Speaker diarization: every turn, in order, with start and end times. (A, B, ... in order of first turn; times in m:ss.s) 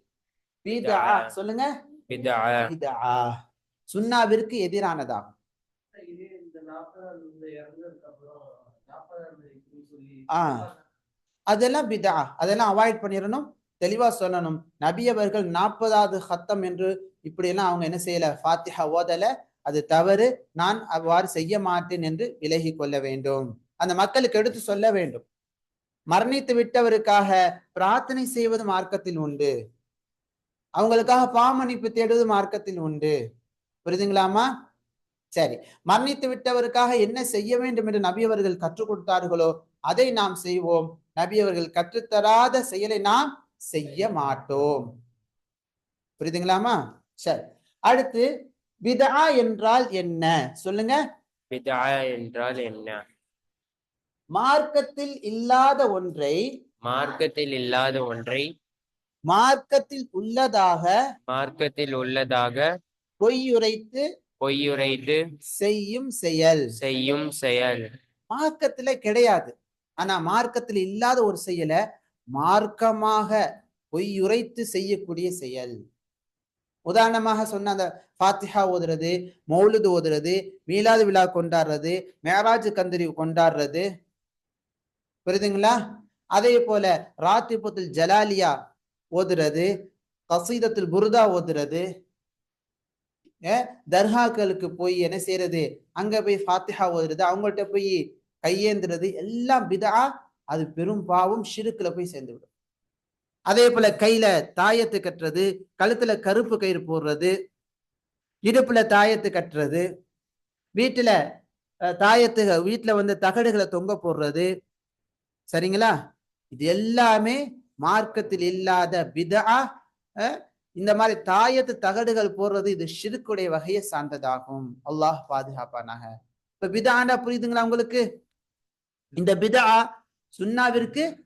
0:00.6-0:01.6 A
0:00.8-0:01.3 B
0:02.1-0:02.7 B
0:02.7-0:03.4 A
0:03.9-0:05.3 A
0:06.0-0:10.7 C
0:10.3-0:10.6 A
0:11.5-0:25.2 A
0:26.1-0:29.5 A
0:30.8-0:33.2 A
0:33.9-0:34.5 A
0:35.4-0:44.9 A
0:46.2-0:48.3 A
0:48.8-0:51.0 A
0:51.5-0:53.0 B
0:54.4-0:56.4 A
0:56.8-0:58.5 B
0:59.3-1:00.9 A
1:01.3-1:02.6 B
1:03.2-1:04.0 A
1:04.4-1:05.2 B
1:05.5-1:06.7 A
1:06.8-1:07.9 B
1:08.3-1:11.8 A
1:12.3-1:13.4 A
1:13.9-1:15.8 A
1:16.9-1:23.9 A
1:25.3-1:25.8 A
1:26.4-1:28.5 A
1:29.2-1:29.7 A
1:30.3-1:31.9 A
1:33.5-1:42.5 A
1:43.5-1:47.3 A
1:48.5-1:49.9 A
1:50.8-1:51.2 A
1:52.0-1:54.5 A
1:55.5-1:55.9 A
1:56.5-1:59.6 A
2:00.2-2:08.0 A
2:09.2-2:09.8 A
2:10.3-2:11.1 A